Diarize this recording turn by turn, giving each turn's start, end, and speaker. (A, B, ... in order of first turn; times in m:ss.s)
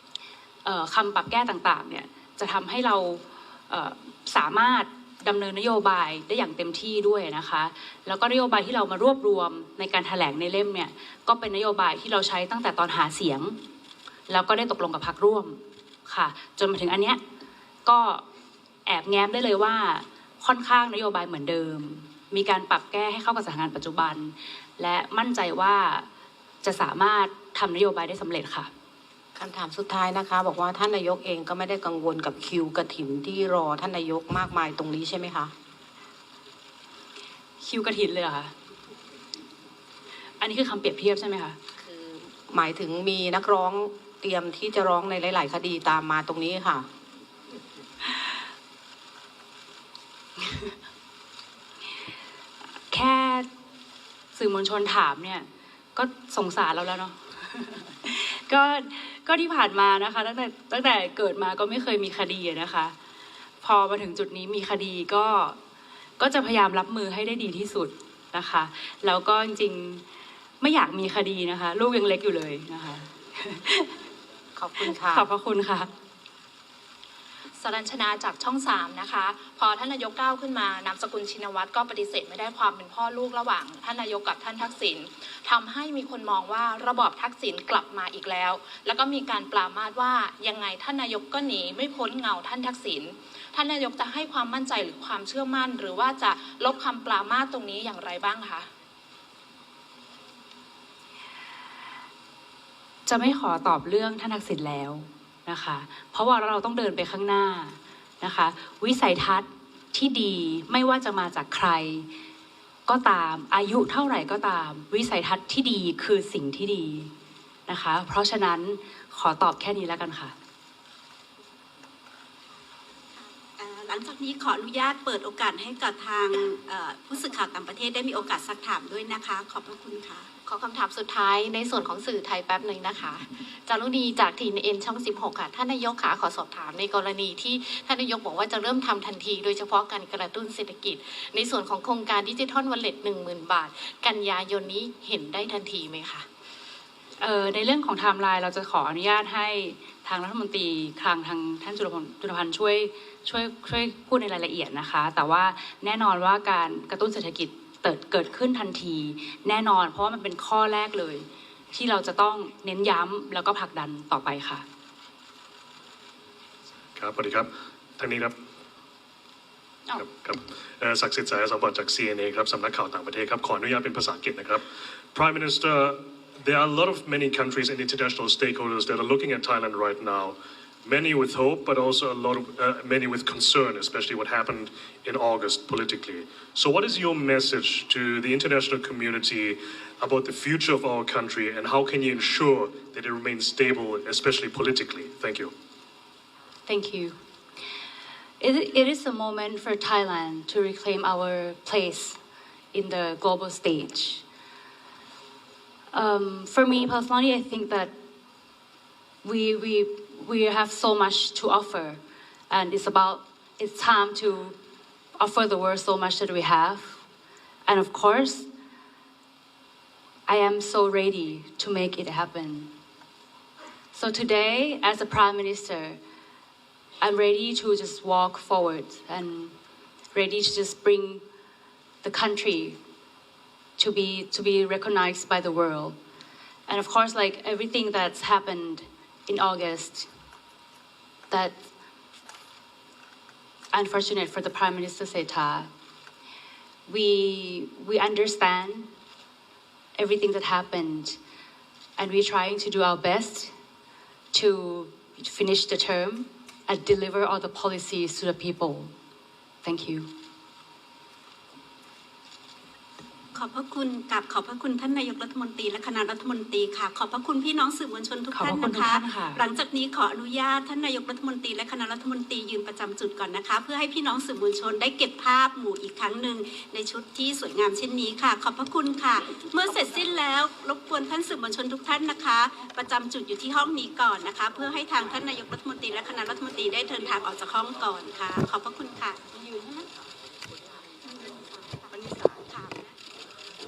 0:00.6-0:13.6 A
0:14.3-0:17.2 A
0:17.9-0:18.2 A
0:18.9-0:26.1 A
0:26.6-0:28.7 A
0:29.4-0:35.5 B
0:37.6-0:38.5 A
0:40.4-0:41.6 A
0:41.8-0:46.9 B
0:50.4-0:50.7 A
0:52.9-0:53.5 A
0:54.4-1:03.0 A
1:03.6-1:05.6 A
1:06.2-1:10.0 A
1:10.6-1:14.0 A
1:14.6-1:15.3 B
1:14.8-1:15.9 A
1:17.6-1:38.7 C
1:43.1-1:52.1 A
1:52.9-1:57.1 A
1:57.7-2:00.3 A
2:03.2-2:10.3 D
2:10.5-2:26.2 E
2:27.2-2:44.6 A
2:47.0-2:48.4 F
2:50.0-3:15.5 F
3:16.7-3:17.2 A
3:18.4-3:22.2 A
3:22.7-3:24.2 A
3:25.9-3:27.9 A
3:29.2-3:34.6 A
3:35.2-3:37.0 A
3:37.7-3:38.5 A
3:40.3-3:42.7 A
3:43.9-3:46.0 A
3:47.0-3:49.5 A
3:50.1-3:51.2 A
3:52.0-3:52.8 A
3:53.8-3:56.0 A
3:56.7-4:00.1 A
4:01.3-4:01.7 A
4:03.7-4:05.7 A
4:06.9-4:08.9 A
4:10.0-4:11.2 A
4:12.0-4:13.5 A
4:14.3-4:18.9 A
4:19.6-4:20.1 A
4:23.3-4:49.9 D
4:28.3-4:29.4 A
4:51.0-4:52.8 D